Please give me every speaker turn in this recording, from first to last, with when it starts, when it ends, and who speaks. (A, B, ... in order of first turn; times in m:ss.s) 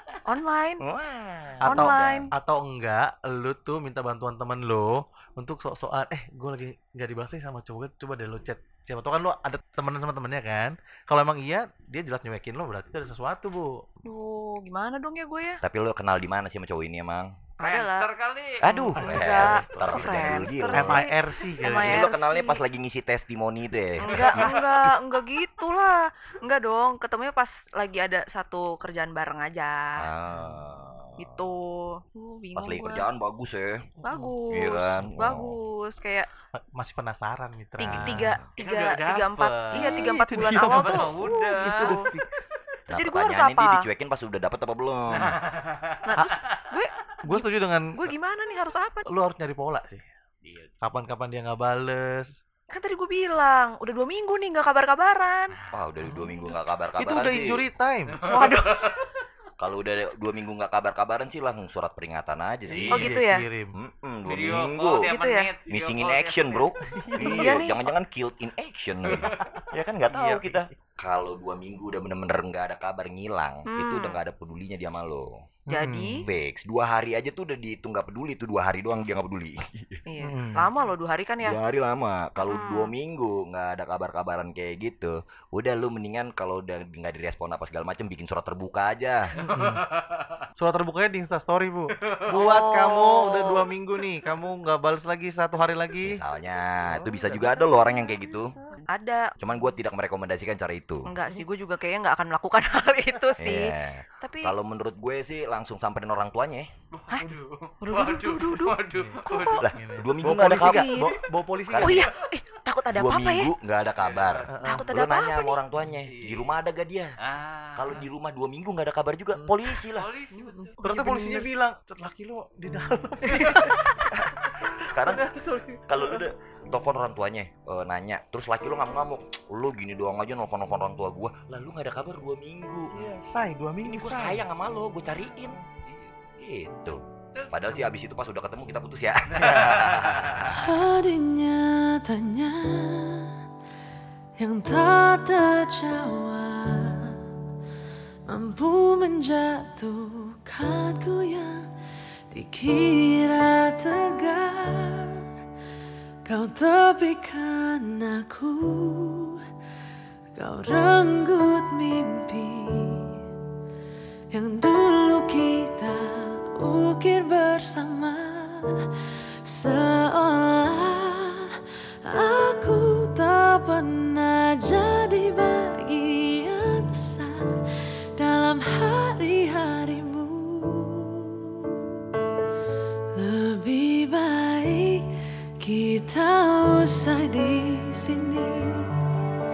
0:00.2-0:00.8 A
0:00.8-0:02.3 B
0:01.6-0:13.8 C
0:01.6-0:02.3 A
0:14.1-0:15.6 A
0:15.6-0:17.3 B
0:17.6-0:18.1 A
0:17.6-0:18.6 D
0:18.6-0:21.1 B
0:18.6-0:22.6 A
0:19.0-0:22.1 C
0:21.7-0:24.6 B
0:24.0-0:30.0 A
0:24.1-0:24.7 C
0:30.0-0:31.5 B
0:31.2-0:33.1 A
0:32.6-0:33.9 B
0:34.0-0:36.3 A
0:34.0-0:34.4 C
0:34.5-0:35.6 B
0:36.6-0:38.4 C
0:37.8-0:42.1 A
0:38.6-0:42.0 D
0:39.7-0:42.6 C
0:42.9-0:45.4 B
0:42.9-0:43.8 A
0:45.1-0:46.6 D
0:46.0-0:49.1 A
0:47.2-0:48.1 C
0:49.1-0:50.0 C
0:50.4-0:50.7 D
0:50.8-0:52.4 C
0:52.7-0:55.6 A
0:55.6-0:56.4 D
0:55.7-0:57.6 B
0:56.9-0:58.2 C
0:58.1-0:59.1 D
0:58.3-0:59.0 A
0:59.6-1:03.2 B
1:02.7-1:03.7 C
1:02.9-1:03.4 A
1:03.8-1:05.1 B
1:04.2-1:06.8 D
1:05.0-1:05.5 A
1:05.7-1:15.3 B
1:06.8-1:07.6 C
1:07.2-1:07.8 A
1:09.1-1:10.7 C
1:09.2-1:09.6 D
1:13.7-1:14.2 A
1:15.7-1:16.2 A
1:15.7-1:16.2 C
1:16.2-1:20.0 B
1:20.1-1:21.6 A
1:20.2-1:20.7 C
1:21.4-1:29.3 B
1:22.4-1:22.9 A
1:29.4-1:30.4 D
1:29.5-1:29.8 C
1:30.6-1:36.2 C
1:32.1-1:32.7 D
1:32.3-1:33.7 A
1:36.0-1:38.6 B
1:38.9-1:39.3 A
1:39.4-1:41.1 B
1:41.1-1:44.6 A
1:43.4-1:46.7 B
1:46.9-1:49.7 D
1:47.8-1:49.6 A
1:48.9-1:52.0 C
1:49.6-1:51.1 B
1:50.4-1:51.2 A
1:51.7-1:52.1 B
1:51.8-1:53.5 A
1:52.9-1:57.2 B
1:54.0-1:54.5 D
1:54.5-1:54.9 C
1:54.6-1:55.6 A
1:56.1-1:56.6 D
1:57.2-1:58.1 D
1:57.7-2:00.1 B
1:59.9-2:00.8 D
2:00.3-2:06.3 C
2:00.8-2:01.4 A
2:04.8-2:05.3 B
2:05.9-2:13.0 B
2:12.9-2:14.4 C
2:13.8-2:15.6 B
2:16.4-2:20.7 B
2:19.3-2:20.6 D
2:20.7-2:23.3 E
2:24.4-2:27.2 E
2:28.3-2:31.6 E
2:32.3-2:35.2 E
2:36.3-2:39.4 E
2:40.4-2:43.2 E
2:44.3-2:48.8 E
2:49.4-2:51.5 E
2:52.0-2:57.4 E
2:58.2-3:01.4 E
3:03.2-3:05.1 E
3:05.6-3:08.9 E